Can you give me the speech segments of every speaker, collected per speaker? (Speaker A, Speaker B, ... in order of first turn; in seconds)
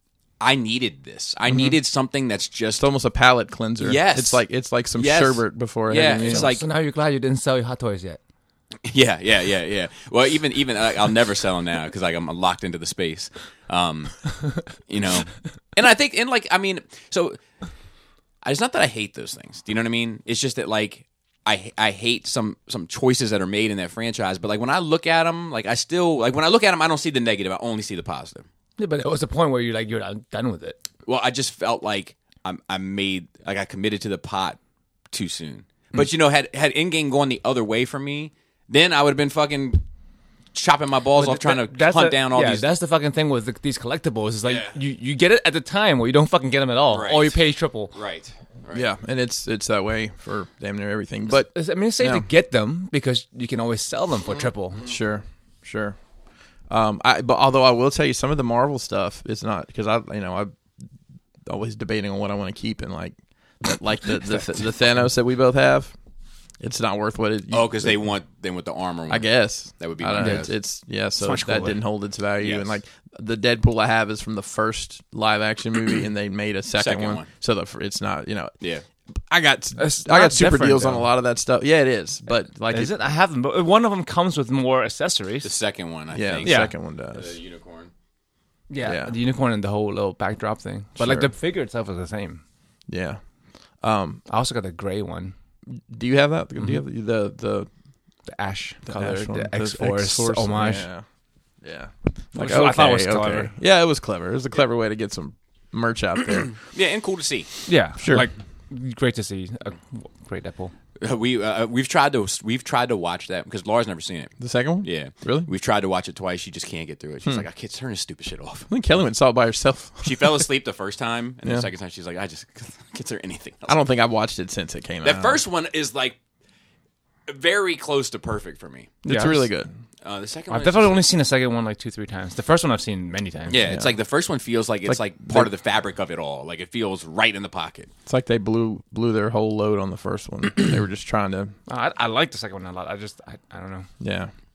Speaker A: 0.4-2.9, 3.8-4.4, 4.9-6.6, 8.8-14.2, 14.7-17.4, 18.4-28.5, 31.1-34.6, 35.1-39.8, 40.5-42.7, 44.4-44.8, 46.9-47.4, 47.9-48.9, 67.5-70.5, 72.4-72.8, 76.8-77.3, 85.4-87.9, 106.7-107.5, 111.0-118.7, 120.0-123.8, 125.0-126.2, 127.3-128.9, 130.0-131.0, 133.5-137.9
Speaker B: 1.5-1.7, 2.8-6.5, 48.7-52.2, 54.8-56.0, 56.7-60.5, 61.4-65.9, 66.6-68.0, 69.1-78.5, 79.3-82.9, 86.1-87.3, 88.8-89.1, 91.0-91.3, 92.9-93.2, 93.8-94.2, 95.7-97.7, 98.9-101.0, 101.6-106.6, 108.0-108.3, 114.4-115.5, 118.7-120.5, 123.7-125.4, 129.0-129.7, 133.7-133.9, 134.9-135.5, 138.1-141.5, 144.0-144.3
Speaker C: 5.9-8.2, 28.8-30.8, 41.2-47.9, 51.4-54.8, 70.2-70.5, 71.2-71.8, 79.8-81.1, 82.7-85.5, 86.4-86.7, 88.7-92.4, 94.3-95.3, 98.3-100.9, 102.3-103.5, 107.7-110.7, 129.1-129.4, 130.5-133.6, 141.7-143.9